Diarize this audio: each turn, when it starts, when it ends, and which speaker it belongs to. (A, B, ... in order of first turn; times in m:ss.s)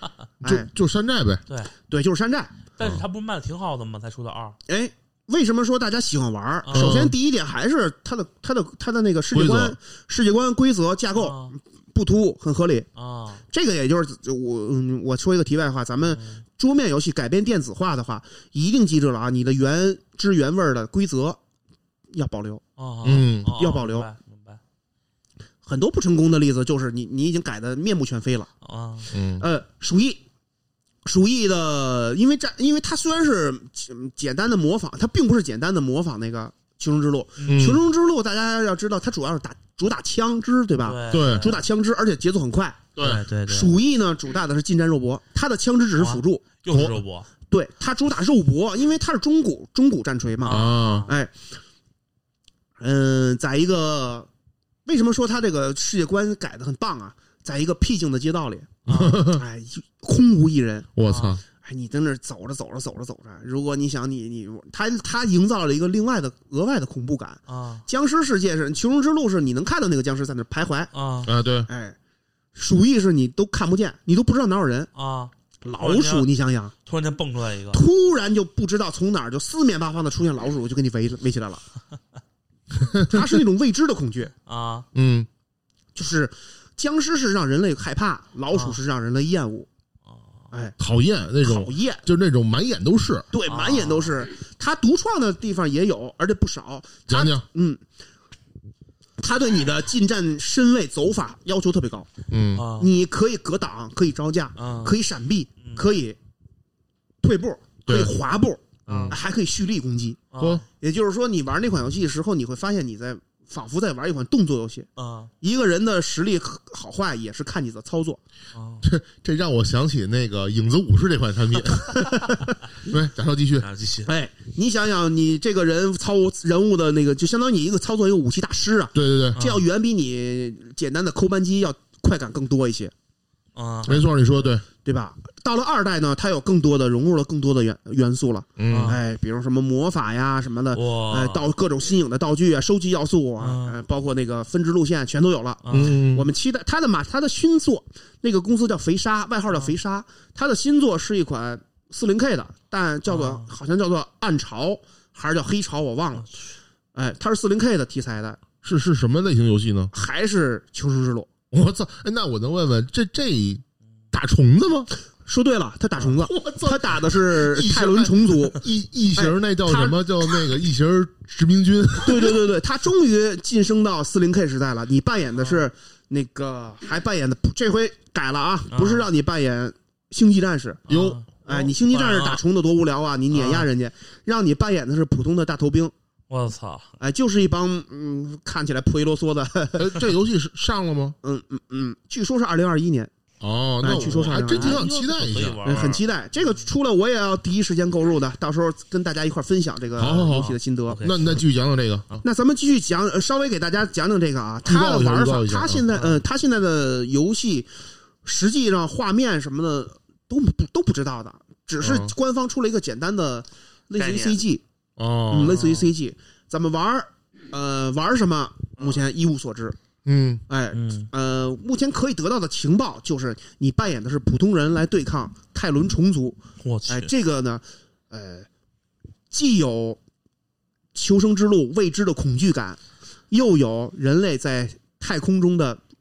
0:00.4-0:00.7 A
0:00.4-0:01.4 B
0:01.5-0:01.7 C
0:01.9-0:02.6 A
0:02.8-0:04.6 C
0:04.7-0:12.9 A
0:06.6-0:07.1 C
0:06.7-0:07.1 B
0:09.3-0:09.8 B
0:11.2-0:11.5 C
0:13.0-0:13.4 C
0:13.5-0:21.4 A
0:16.2-0:16.4 C
0:22.1-0:22.6 A
0:22.8-0:24.6 C
0:23.0-0:23.5 B
0:23.5-0:24.1 A
0:25.6-0:28.5 A
0:28.6-0:29.1 C
0:29.1-0:29.4 B
0:29.4-0:30.2 A
0:31.0-0:42.9 A
0:37.4-0:37.7 C
0:37.4-0:37.8 B
0:40.8-0:41.6 C
0:41.1-0:41.5 B
0:43.0-0:43.2 B
0:43.0-0:43.8 C
0:43.5-0:46.4 A
0:46.0-0:47.3 C
0:46.7-0:47.0 B
0:47.5-0:51.4 A
0:50.4-0:51.1 C
0:50.5-0:51.1 B
0:52.8-0:54.3 A
0:54.8-1:00.9 A
0:58.8-0:59.2 C
0:58.8-0:59.4 B
1:01.0-1:01.4 B
1:01.0-1:01.4 C
1:01.6-1:10.9 A
1:07.5-1:07.8 C
1:10.9-1:11.3 C
1:11.2-1:11.7 B
1:11.7-1:12.0 A
1:12.5-1:14.9 A
1:15.0-1:16.3 C
1:15.6-1:16.7 A
1:16.8-1:17.8 C
1:17.7-1:21.6 A
1:22.8-1:23.3 B
1:23.0-1:24.3 A
1:24.4-1:24.9 C
1:24.9-1:25.3 B
1:25.9-1:29.7 A
1:28.5-1:28.8 C
1:30.1-1:30.5 C
1:30.8-1:33.3 B
1:31.4-1:32.0 A
1:33.3-1:37.8 A
1:33.4-1:34.2 C
1:37.1-1:37.4 B
1:39.2-1:42.1 A
1:42.3-1:42.6 B
1:42.6-1:42.9 C
1:42.8-1:46.2 A
1:44.6-1:45.0 C
1:47.2-1:50.2 A
1:47.8-1:48.1 B
1:48.9-1:49.2 B
1:48.9-1:49.2 C
1:50.3-1:50.6 C
1:50.4-1:50.6 B
1:50.8-1:54.9 A
1:55.0-1:55.3 C
1:55.4-1:58.2 A
1:58.5-1:58.8 C
1:58.8-2:02.3 B
2:01.8-2:02.4 A
2:02.8-2:03.7 B
2:03.6-2:04.1 C
2:04.0-2:12.9 A
2:08.9-2:09.4 B
2:09.3-2:09.6 C
2:13.5-2:14.4 C
2:13.8-2:14.6 B
2:14.8-2:36.3 A
2:18.6-2:19.0 B
2:18.7-2:19.0 C
2:20.7-2:21.4 C
2:23.4-2:23.8 C
2:25.6-2:26.0 C
2:25.7-2:26.3 B
2:33.1-2:33.5 C
2:36.9-2:38.4 A
2:38.6-2:39.9 B
2:39.9-2:41.3 A
2:41.5-2:44.9 B
2:45.2-2:48.6 A
2:46.0-2:52.4 B
2:49.1-2:50.4 A
2:52.0-3:00.8 A
2:58.7-2:59.1 C
3:00.9-3:02.4 C
3:00.9-3:01.2 B
3:01.4-3:05.9 A
3:03.3-3:03.7 C
3:06.3-3:06.9 C
3:07.0-3:10.0 A
3:09.8-3:11.2 B
3:11.2-3:13.1 A
3:13.4-3:15.6 B
3:13.8-3:14.9 A
3:13.9-3:16.0 C
3:15.6-3:21.0 A
3:20.0-3:22.2 B
3:20.2-3:21.4 C
3:22.2-3:27.7 A
3:24.6-3:25.8 B
3:25.9-3:26.2 C
3:28.2-3:34.6 A
3:31.8-3:32.1 B
3:34.0-3:34.4 C
3:35.0-3:35.6 B
3:35.3-3:39.8 A
3:35.4-3:35.9 C
3:38.8-3:39.0 C
3:40.0-3:40.4 B
3:40.5-3:48.5 A
3:40.7-3:41.1 C
3:46.6-3:47.1 C
3:49.3-3:50.0 A
3:50.9-3:52.8 A
3:53.3-3:55.8 A